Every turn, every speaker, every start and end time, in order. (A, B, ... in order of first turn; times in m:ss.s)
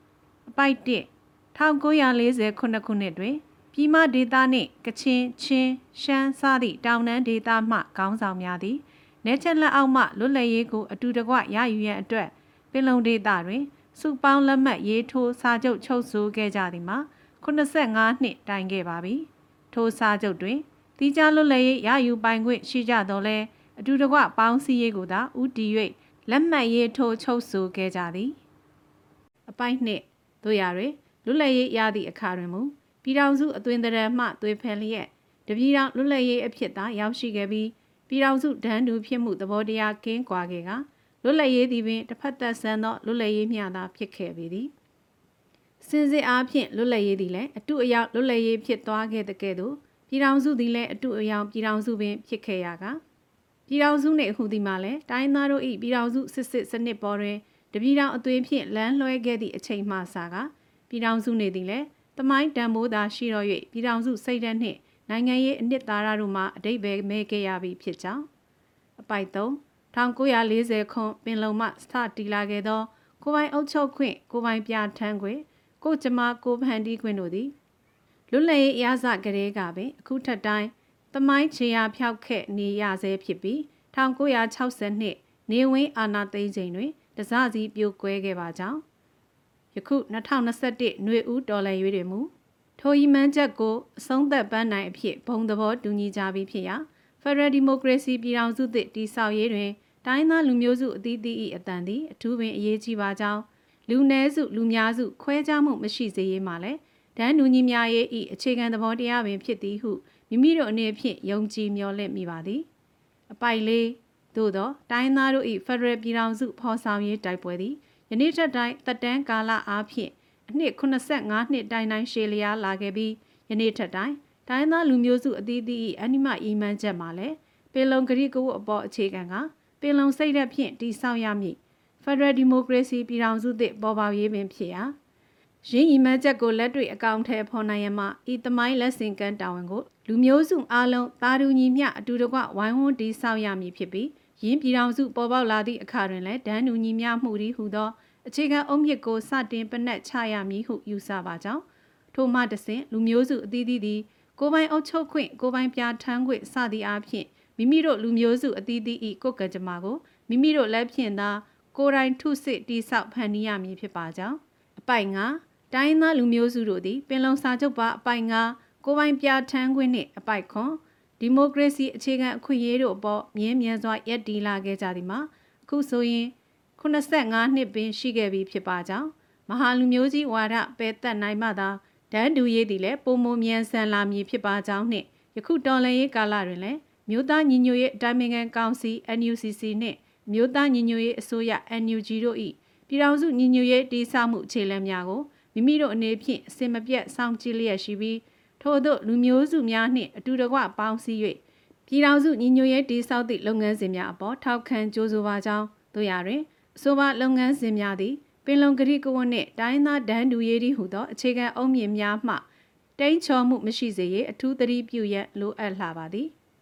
0:00.5-0:28.4 A
0:29.5-0:44.7 A
0:45.8-0:53.0 A
0:53.7-1:08.2 A
1:09.0-1:17.5 A
1:18.3-1:28.8 A
1:29.7-1:52.6 A
1:53.3-2:14.9 A
2:15.6-3:32.4 A
3:33.0-3:36.3 A